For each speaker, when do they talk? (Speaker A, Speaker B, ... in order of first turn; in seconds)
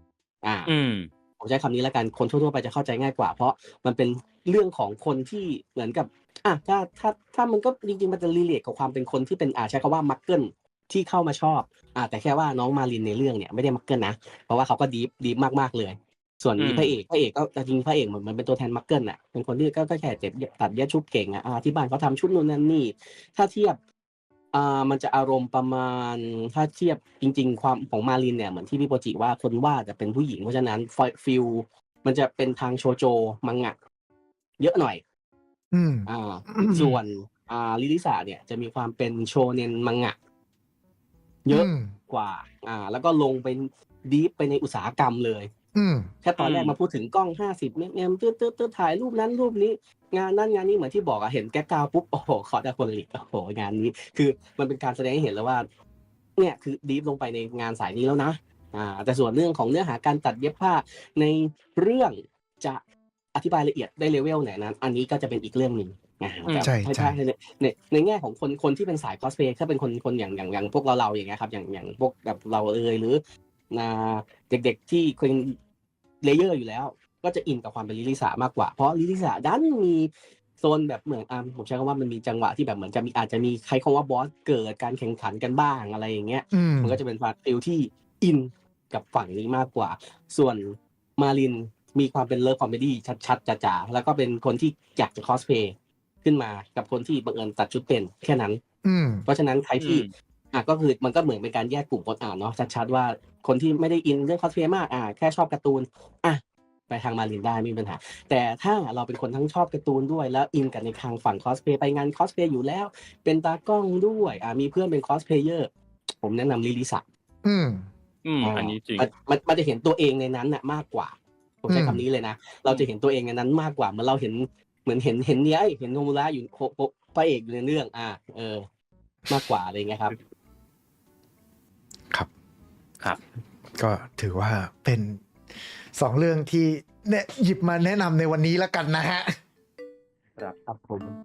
Speaker A: 0.4-0.7, 1.4-23.8, 24.5-33.8, 34.6-35.0, 36.1-40.1, 41.4-45.5, 46.2-55.7, 56.4-62.8, 63.3-75.6, 76.2-98.6, 99.2-117.0, 118.4-128.6, 129.3-130.2
Speaker B: 0.7-1.1, 16.6-16.9, 46.4-46.8, 66.5-66.7, 99.8-100.1, 118.2-119.1
Speaker C: 35.7-37.0, 41.5-41.9, 45.7-46.1, 66.6-67.2, 86.5-87.0, 98.8-99.2, 117.4-117.9, 121.7-122.0, 133.7-135.2, 135.9-139.3